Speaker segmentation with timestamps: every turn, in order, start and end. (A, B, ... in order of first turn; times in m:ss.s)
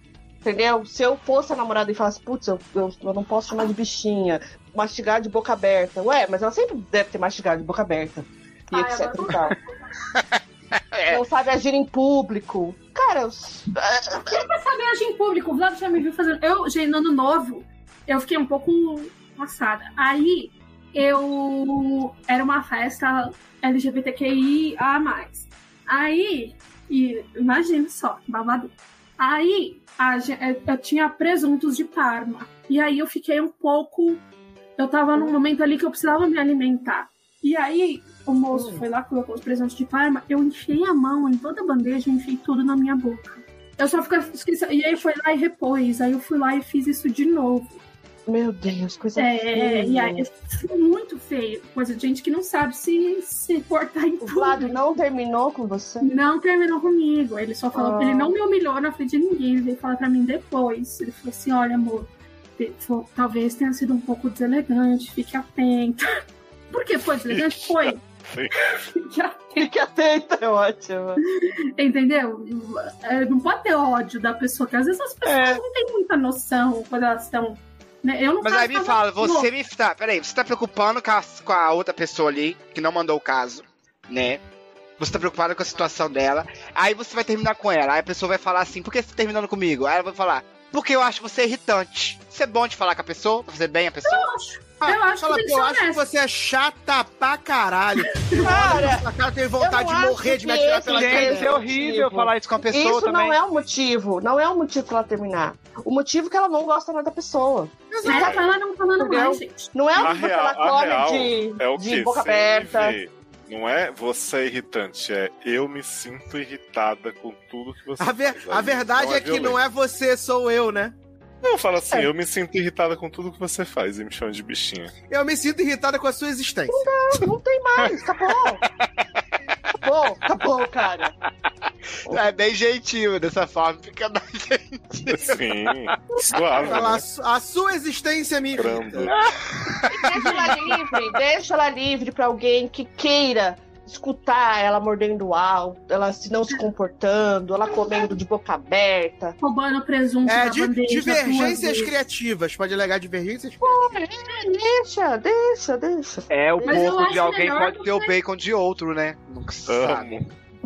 0:00.4-0:09.6 A
0:08.7-0:09.8 B
0:10.1-0:11.2 C
0:11.1-0:14.3 A
0:14.3-0:34.2 B
0:34.8-0:47.8 B
0:38.5-0:38.8 A
0:48.3-0:50.2 A
0:49.2-0:54.8 B
0:54.2-0:56.1 A
0:56.0-1:06.1 B
0:57.7-0:58.4 A
1:06.7-1:08.0 B
1:07.3-1:08.5 D
1:08.6-1:09.7 B
1:09.6-1:11.2 A
1:11.3-1:19.5 B
1:15.2-1:15.6 C
1:18.4-1:24.4 C
1:25.0-1:34.3 C
1:34.0-1:36.0 B
1:34.8-1:41.7 E
1:38.1-1:38.5 B
1:38.4-1:39.1 A
1:39.6-1:48.4 A
1:40.8-1:43.4 C
1:48.0-1:50.2 B
1:49.0-1:53.0 A
1:50.0-1:59.6 D
1:58.0-2:00.9 E
2:01.4-2:04.9 D
2:05.1-2:06.8 E
2:06.7-2:08.6 A
2:09.8-2:11.1 A
2:12.0-2:15.9 C
2:15.1-2:17.0 D
2:16.6-2:19.1 E
2:18.5-2:19.1 D
2:19.1-2:20.4 C
2:19.9-2:29.4 A
2:29.4-2:32.0 B
2:30.2-2:34.0 E
2:33.6-2:37.0 A
2:36.3-2:40.1 C
2:36.6-2:38.1 B
2:39.7-2:40.3 D